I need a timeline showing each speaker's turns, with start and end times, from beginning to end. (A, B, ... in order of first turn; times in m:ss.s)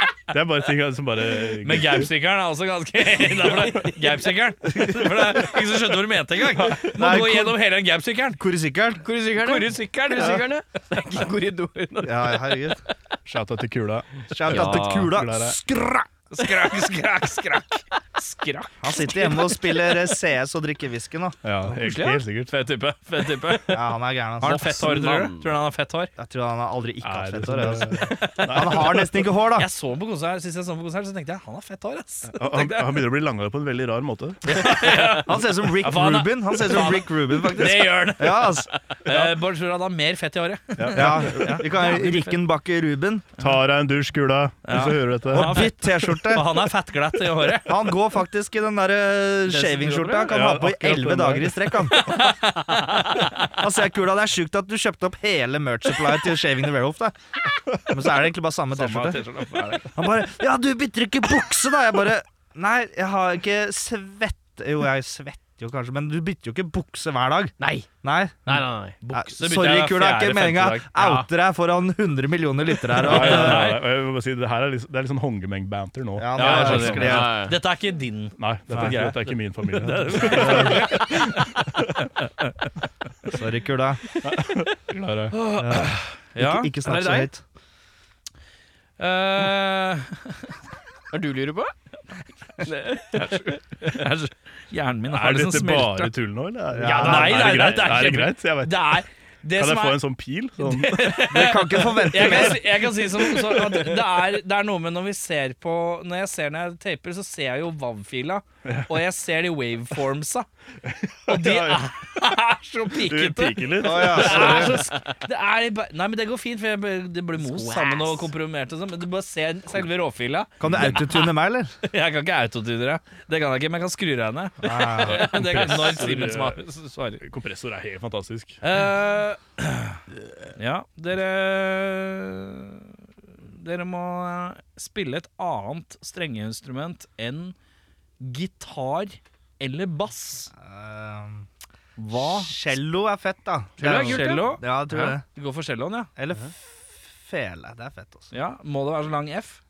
0:00.3-0:02.1 A
0:01.6-0:08.4 B
0:04.8-0:05.1 C
0:06.5-0:06.9 A
0:06.8-0:07.6 C
0:08.4-0:09.0 C
0:09.0-0:12.7 D
0:09.4-0:10.4 B
0:10.1-0:10.4 C
0:12.0-0:12.8 C
0:13.2-0:15.6 A
0:14.3-0:16.1 C
0:14.4-0:15.1 D
0:16.3-0:19.3 B
0:18.8-0:21.4 C
0:19.2-0:19.8 D
0:21.4-0:22.5 A
0:21.8-0:26.1 B
0:23.7-0:24.7 C
0:24.4-0:25.5 D
0:26.2-0:29.7 C
0:27.0-0:29.2 A
0:28.1-0:33.0 B
0:32.3-0:34.6 A
0:34.4-0:42.2 B
0:34.6-0:38.7 C
0:40.8-0:41.8 A
0:40.9-0:43.3 C
0:43.4-0:46.2 A
0:44.6-0:47.8 B
0:45.3-0:46.6 C
0:47.6-0:52.2 C
0:49.5-0:50.3 B
0:50.2-0:51.8 A
0:51.9-0:53.6 B
0:53.6-0:57.2 C
0:57.7-0:59.2 C
0:58.7-1:00.0 B
0:59.9-1:13.7 C
1:07.6-1:07.9 D
1:08.4-1:09.0 D
1:09.0-1:10.8 B
1:10.8-1:11.3 D
1:13.0-1:13.8 B
1:13.0-1:17.3 A
1:16.2-1:17.4 C
1:16.3-1:22.7 B
1:16.8-1:17.6 D
1:18.4-1:22.0 A
1:23.3-1:24.0 C
1:24.2-1:25.3 A
1:25.3-1:26.7 B
1:25.5-1:27.4 C
1:26.8-1:27.3 D
1:29.0-1:30.5 B
1:31.1-1:31.7 D
1:32.6-1:33.6 D
1:33.1-1:36.1 B
1:35.1-1:39.0 A
1:36.7-1:37.4 C
1:36.8-1:38.1 D
1:37.0-1:40.0 B
1:39.6-1:41.2 A
1:40.6-1:50.5 B
1:41.3-1:42.6 C
1:48.6-1:48.9 A
1:50.8-1:51.9 A
1:51.3-2:01.3 B
1:53.0-1:54.8 A
1:53.8-1:54.8 C
1:57.3-1:58.3 D
2:00.6-2:01.7 C
2:00.6-2:01.1 A
2:01.8-2:07.2 B
2:04.6-2:05.2 C
2:05.0-2:06.6 A
2:07.2-2:08.6 A
2:08.6-2:10.0 B
2:10.6-2:17.6 B
2:18.2-2:20.5 B
2:20.6-2:21.5 C
2:22.0-2:22.7 B
2:22.1-2:25.2 C
2:23.8-2:25.2 D
2:23.8-2:24.6 B
2:25.3-2:26.1 B
2:26.2-2:28.3 C
2:28.3-2:29.6 B